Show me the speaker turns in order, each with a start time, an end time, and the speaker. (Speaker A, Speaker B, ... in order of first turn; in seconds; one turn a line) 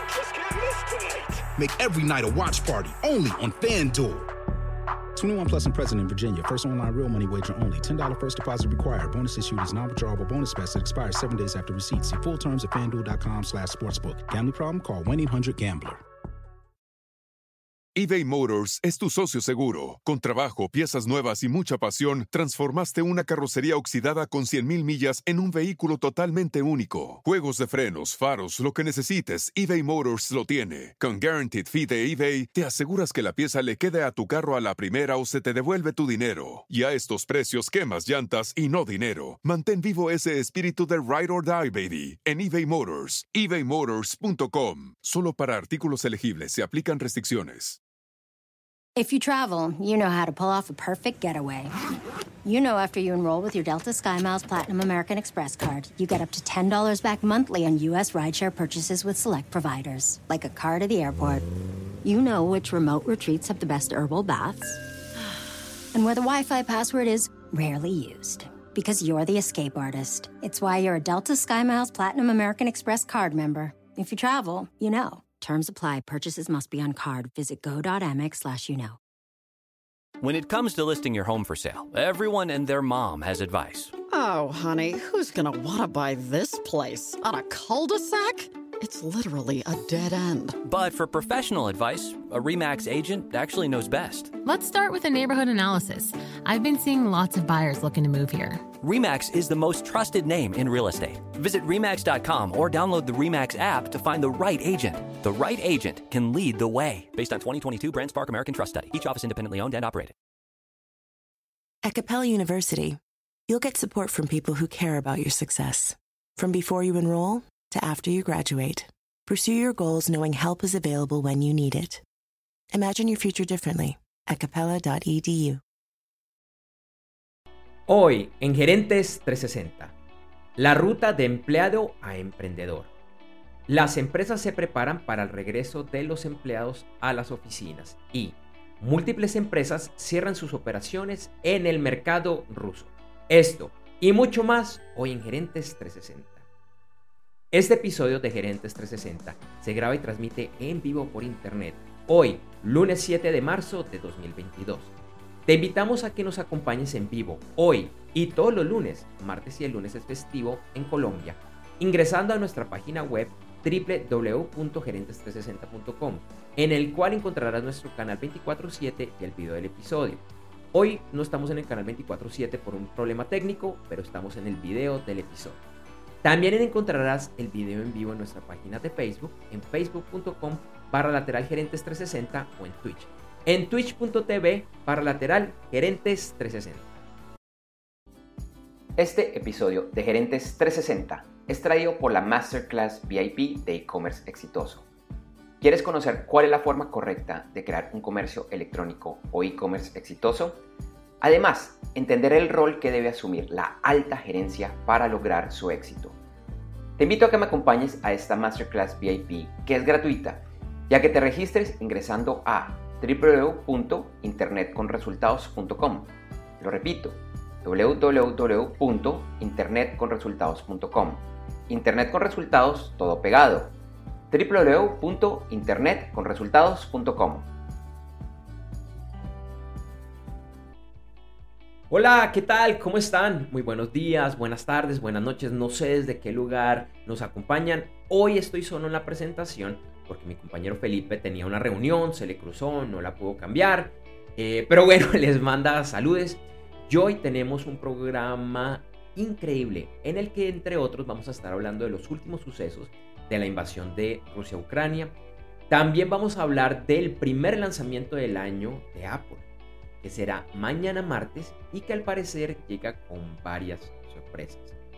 Speaker A: 0.5-4.3
Speaker A: 5.1-16.0
Speaker B: 17.9-47.8
Speaker C: 49.0-51.8
Speaker C: 52.4-61.5
Speaker C: 62.0-64.8
Speaker C: 65.9-79.0
Speaker D: 80.2-84.0
Speaker E: 84.1-90.6
Speaker D: 90.6-94.3
Speaker F: 94.4-98.7
Speaker D: 98.8-110.1
Speaker G: 111.8-122.0
Speaker G: 122.7-125.6
Speaker H: 127.9-129.9
Speaker H: 130.6-132.9
Speaker H: 133.7-146.4
Speaker H: 147.5-154.9
Speaker H: 155.5-170.2
Speaker H: 170.7-175.6
Speaker H: 176.2-186.8
Speaker H: 189.0-194.8
Speaker H: 195.6-200.6
Speaker H: 201.2-206.2
Speaker H: 207.0-223.7
Speaker H: 224.3-227.5
Speaker H: 231.9-255.1
Speaker H: 255.7-259.4
Speaker H: 260.0-264.7